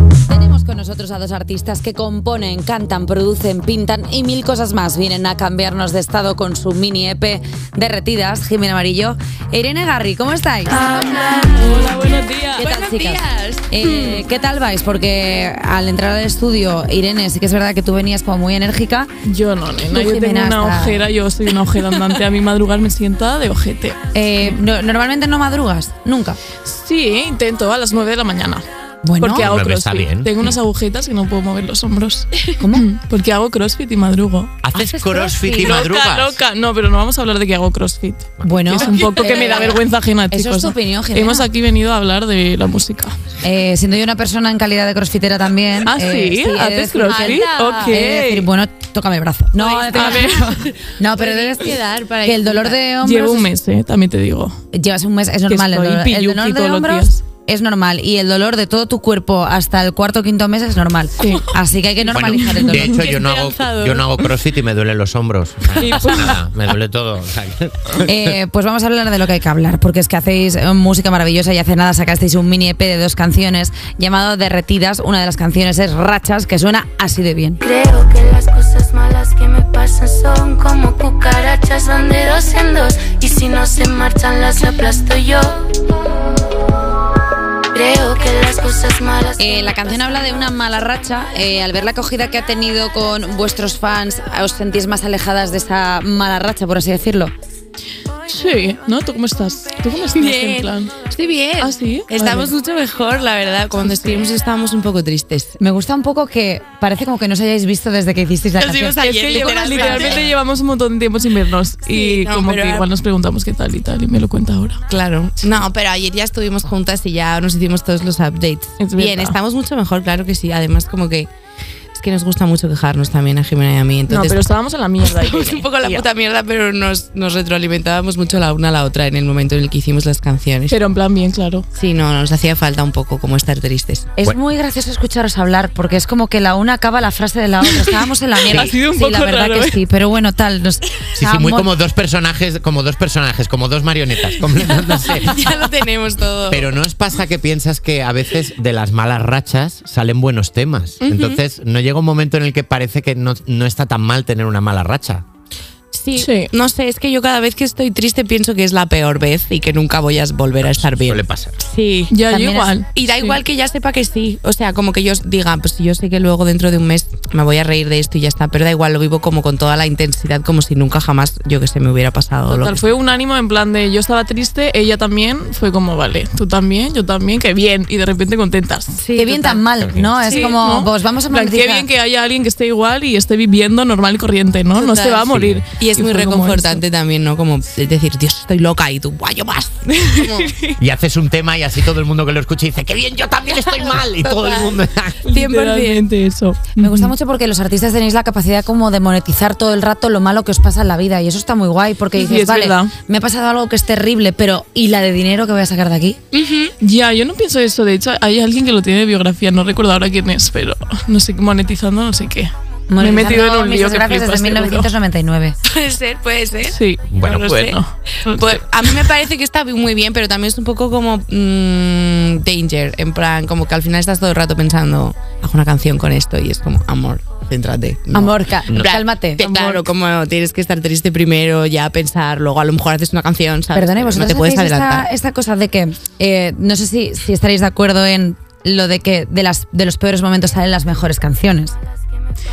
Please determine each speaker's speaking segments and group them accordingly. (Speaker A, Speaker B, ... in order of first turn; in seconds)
Speaker A: 0.3-10.9, 12.6-19.1, 19.9-21.1, 24.1-26.4, 29.0-29.5, 32.6-32.9, 34.7-35.8, 38.4-41.5, 43.4-53.5, 54.7-63.2, 68.0-77.6, 89.4-97.3, 105.6-110.2, 134.2-141.7, 162.3-162.7, 179.1-181.9, 196.8-206.2, 212.9-215.5, 228.1-229.4, 233.7-241.7
Speaker B: 10.7-12.7, 19.2-24.6, 26.6-28.6, 29.2-34.5, 35.6-43.1, 45.8-48.5, 49.9-50.5, 53.0-54.6, 55.5-57.2, 61.2-61.5, 65.8-66.4, 98.3-100.9, 101.6-102.5, 103.8-104.3, 109.0-114.8, 118.8-119.3, 124.1-126.0, 130.7-131.7, 138.4-139.8, 156.2-156.5, 162.1-163.4, 172.5-179.0, 180.2-186.8, 190.0-190.8, 195.2-197.1, 202.1-202.9, 206.8-214.9, 216.7-218.6, 229.4-229.8
Speaker C: 11.0-11.6, 12.6-14.2, 38.8-39.8, 47.0-48.0, 49.6-52.8, 63.0-64.0, 100.1-105.5, 108.6-110.3, 111.9-112.9, 114.9-121.3, 121.9-124.4, 125.0-130.8, 131.7-134.1, 144.7-146.7, 151.0-151.4, 155.9-162.1, 162.9-172.8, 179.0-179.7, 180.2-180.5, 184.8-190.5, 194.2-194.7, 195.3-196.0, 206.3-206.7, 215.7-216.8, 218.3-235.1
Speaker D: 29.4-30.3, 34.6-36.4, 38.4-39.0, 62.1-68.1, 141.2-145.4, 146.5-155.2, 160.9-161.6, 179.8-180.1, 185.3-185.6, 190.8-195.3, 217.1-217.8
Speaker E: 77.6-85.6, 87.7-89.5